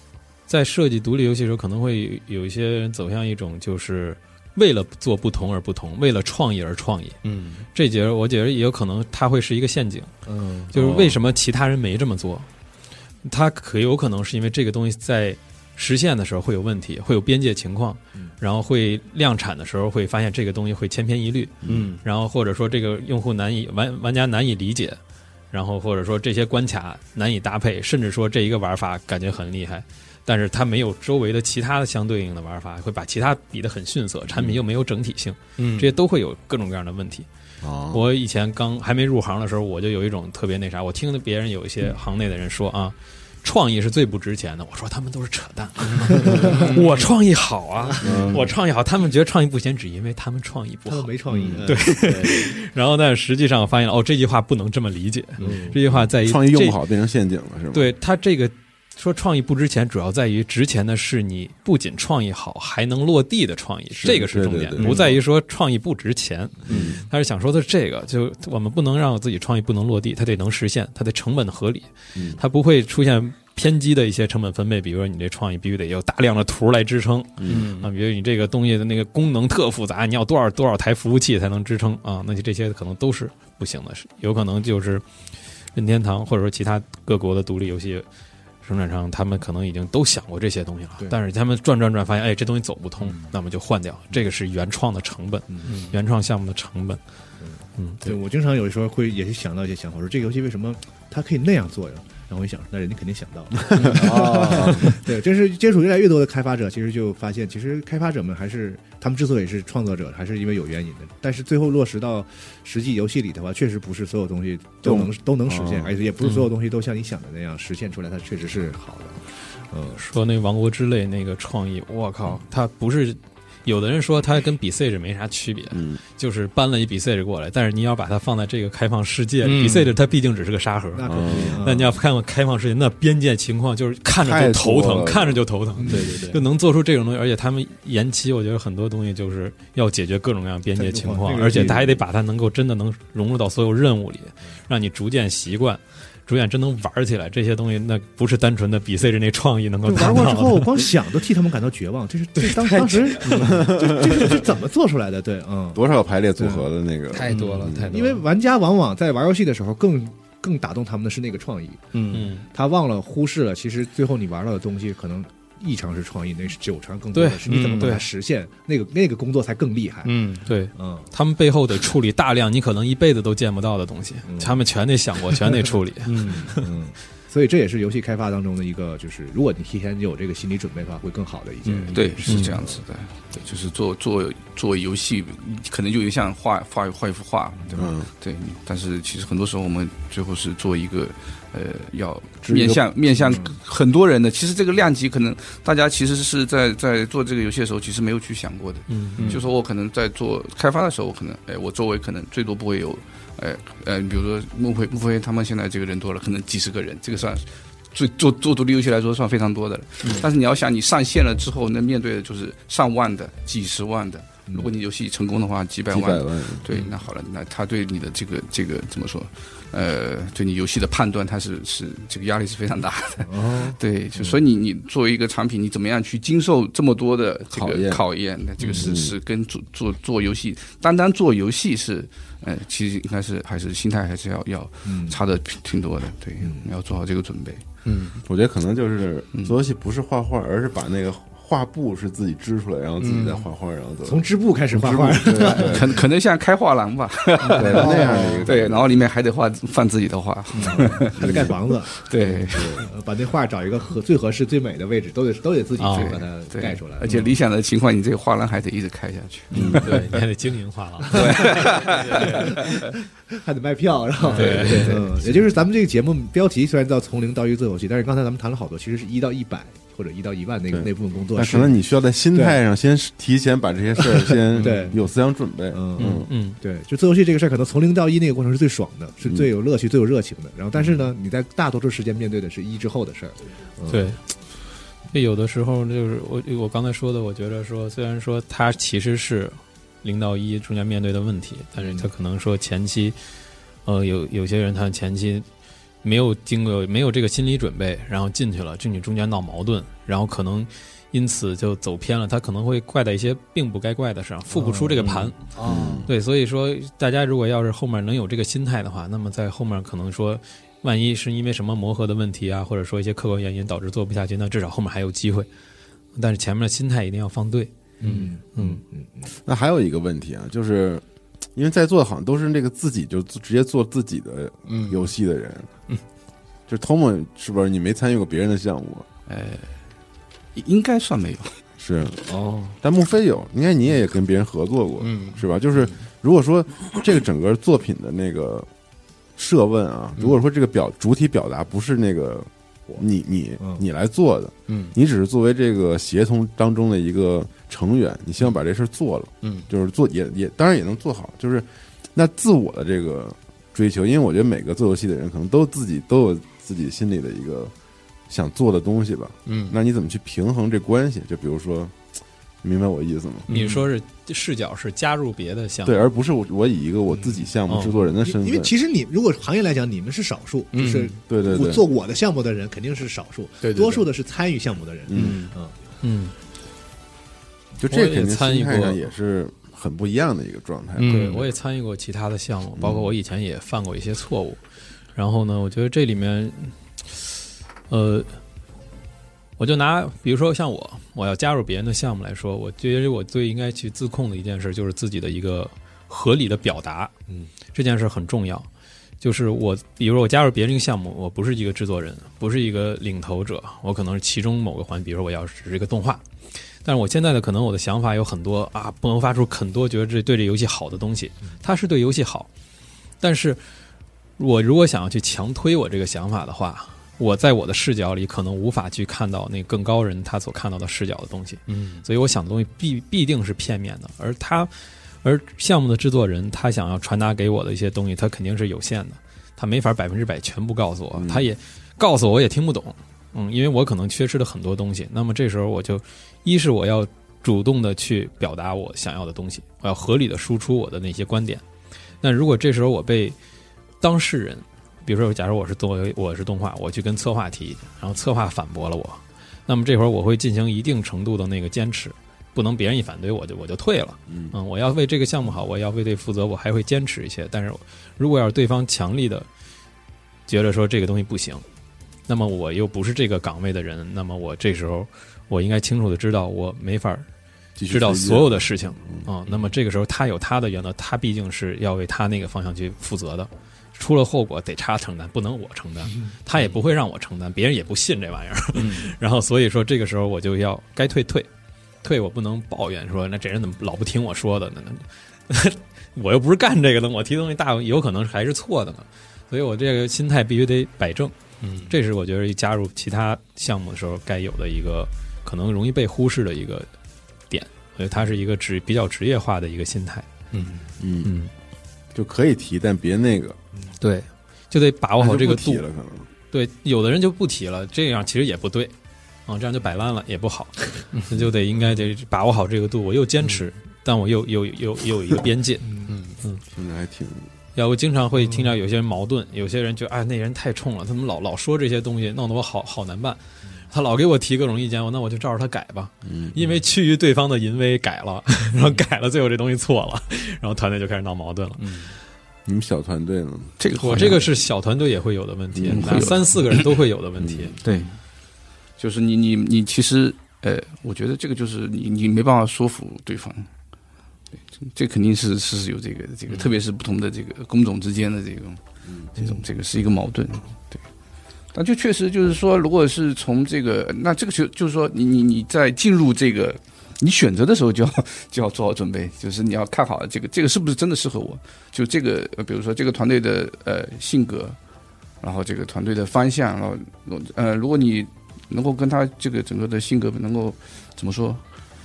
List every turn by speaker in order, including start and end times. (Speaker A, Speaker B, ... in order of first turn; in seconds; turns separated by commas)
Speaker A: 0.5-7.2, Speaker B: 7.2-7.7, Speaker A: 7.7-10.1, Speaker C: 10.3-10.7, Speaker A: 10.7-12.5, Speaker D: 10.7-11.2, Speaker A: 13.2-25.0, Speaker B: 21.7-22.0, Speaker A: 25.5-37.3, Speaker D: 34.3-34.6, Speaker B: 35.6-36.0, Speaker D: 37.6-38.0, Speaker A: 37.9-51.1, Speaker B: 45.9-47.0, Speaker C: 46.3-46.5, Speaker C: 48.0-48.3, Speaker D: 48.0-48.5, Speaker C: 50.9-52.5, Speaker D: 51.4-51.6, Speaker A: 51.6-56.8, Speaker B: 52.0-52.4, Speaker C: 55.4-55.8, Speaker B: 55.4-55.7, Speaker D: 55.9-57.9, Speaker A: 57.7-85.0, Speaker D: 63.9-65.1, Speaker B: 64.8-65.2, Speaker D: 66.7-67.0, Speaker D: 72.2-72.4, Speaker D: 77.4-77.7, Speaker B: 77.5-77.9, Speaker A: 85.7-88.1, Speaker A: 88.6-97.0, Speaker B: 95.7-95.9, Speaker C: 97.4-120.0, Speaker A: 97.8-98.1, Speaker D: 103.7-105.0, Speaker D: 114.8-115.9, Speaker A: 120.0-150.9, Speaker D: 125.7-126.0, Speaker B: 129.4-129.9, Speaker C: 130.9-132.0, Speaker D: 131.1-131.7, Speaker D: 134.2-135.4, Speaker C: 135.8-136.4, Speaker C: 140.8-142.0, Speaker C: 149.8-155.8, Speaker A: 152.4-154.5, Speaker D: 153.6-153.9, Speaker D: 155.7-157.9, Speaker C: 156.4-156.7, Speaker A: 157.1-158.2, Speaker B: 157.3-157.7, Speaker C: 157.9-161.8, Speaker B: 161.9-162.3, Speaker A: 162.1-162.5, Speaker C: 162.5-170.1, Speaker A: 167.1-168.1, Speaker B: 167.5-168.0, Speaker B: 170.1-170.5, Speaker A: 170.5-176.7, Speaker C: 170.8-171.1, Speaker C: 174.2-174.6, Speaker B: 176.1-176.5, Speaker C: 176.3-182.8, Speaker B: 181.7-181.9, Speaker E: 181.9-237.7, Speaker A: 182.2-182.6, Speaker D: 187.8-188.1, Speaker D: 192.4-192.8, Speaker C: 193.3-193.6, Speaker A: 198.9-199.3, Speaker B: 199.2-199.4, Speaker B: 210.0-210.3, Speaker D: 215.9-216.7, Speaker C: 223.2-223.8, Speaker D: 227.5-228.0, Speaker B: 228.6-228.9, Speaker D: 228.8-229.2, Speaker C: 234.8-235.2, Speaker C: 236.4-236.7, Speaker B: 237.8-238.2, Speaker D: 238.2-246.0, Speaker B: 243.0-243.5, Speaker C: 244.1-246.0, Speaker E: 245.3-252.9, Speaker C: 247.4-248.5, Speaker D: 247.6-248.8, Speaker C: 250.6-252.0, Speaker D: 252.2-252.9, Speaker C: 252.8-257.2, Speaker A: 255.8-256.2, Speaker E: 255.9-260.2, Speaker A: 259.7-261.7, Speaker E: 261.1-262.6, Speaker C: 262.1-262.5, Speaker C: 263.3-271.8, Speaker B: 264.3-264.9, Speaker A: 264.4-265.1, Speaker E: 264.4-265.0, Speaker D: 270.7-276.3, Speaker C: 272.3-272.6, Speaker C: 274.5-275.0, Speaker C: 275.7-284.1, Speaker A: 276.0-276.6, Speaker A: 283.9-284.2, Speaker A: 285.1-293.2, Speaker C: 291.8-292.1, Speaker A: 293.9-295.5, Speaker A: 296.0-305.4, Speaker C: 304.5-306.1, Speaker B: 305.0-305.3, Speaker D: 305.7-306.1, Speaker A: 306.1-315.5, Speaker A: 316.1-317.7, Speaker B: 318.0-318.3, Speaker C: 318.0-319.3, Speaker A: 318.6-318.8, Speaker D: 319.4-321.0, Speaker D: 321.6-325.7, Speaker B: 324.7-325.1, Speaker D: 326.7-329.1, Speaker E: 329.3-329.7, Speaker E: 330.6-331.6, Speaker D: 331.8-332.2, Speaker C: 332.3-332.8, Speaker D: 332.8-338.7, Speaker B: 335.0-335.4, Speaker D: 339.4-357.7, Speaker B: 344.7-344.9, Speaker B: 349.4-349.7, Speaker D: 358.3-362.0, Speaker B: 359.5-359.8, Speaker D: 362.6-363.5, Speaker B: 363.5-363.9, Speaker A: 363.5-366.0, Speaker D: 365.9-368.7, Speaker A: 367.7-367.9, Speaker C: 368.2-375.8, Speaker B: 370.7-371.1, Speaker D: 371.3-371.8, Speaker B: 373.6-374.1, Speaker D: 375.1-375.4, Speaker B: 375.1-375.5, Speaker A: 376.0-376.3, Speaker D: 377.8-381.2, Speaker A: 377.9-379.0, Speaker B: 381.0-381.5, Speaker A: 381.0-384.6, Speaker D: 382.8-383.1, Speaker A: 385.1-388.4, Speaker A: 389.6-397.1, Speaker A: 397.7-398.7, Speaker A: 399.2-406.2, Speaker A: 406.8-412.5, Speaker A: 413.2-413.6, Speaker A: 414.4-441.6, Speaker B: 421.7-422.0, Speaker D: 431.1-431.5, Speaker A: 442.2-443.4, Speaker A: 444.0-459.5, Speaker A: 460.5-461.6, Speaker A: 462.3-467.3, Speaker D: 467.8-469.3, Speaker A: 467.9-481.5, Speaker B: 478.8-479.1, Speaker A: 482.0-491.3, Speaker B: 491.6-491.9, Speaker A: 491.9-496.9, Speaker A: 497.5-500.3, Speaker D: 501.0-501.3, Speaker A: 501.2-501.5, Speaker D: 502.1-503.6, Speaker A: 504.0-505.8, Speaker D: 505.2-506.3, Speaker A: 506.5-508.9, Speaker A: 509.5-516.6, Speaker C: 515.9-516.1, Speaker B: 516.1-516.4, Speaker D: 516.7-517.5, Speaker A: 517.8-523.4, Speaker A: 523.9-532.1, Speaker D: 526.2-526.8, Speaker B: 531.8-532.1, Speaker D: 532.7-533.7, Speaker E: 533.8-534.5, Speaker A: 534.0-537.8, Speaker D: 535.7-536.3, Speaker E: 535.9-537.0, Speaker D: 537.4-537.8, Speaker E: 537.8-538.2, Speaker E: 539.0-543.7, Speaker E: 544.5-548.8, Speaker B: 546.5-546.8, Speaker E: 549.4-551.0, Speaker E: 551.7-564.8, Speaker E: 565.4-571.6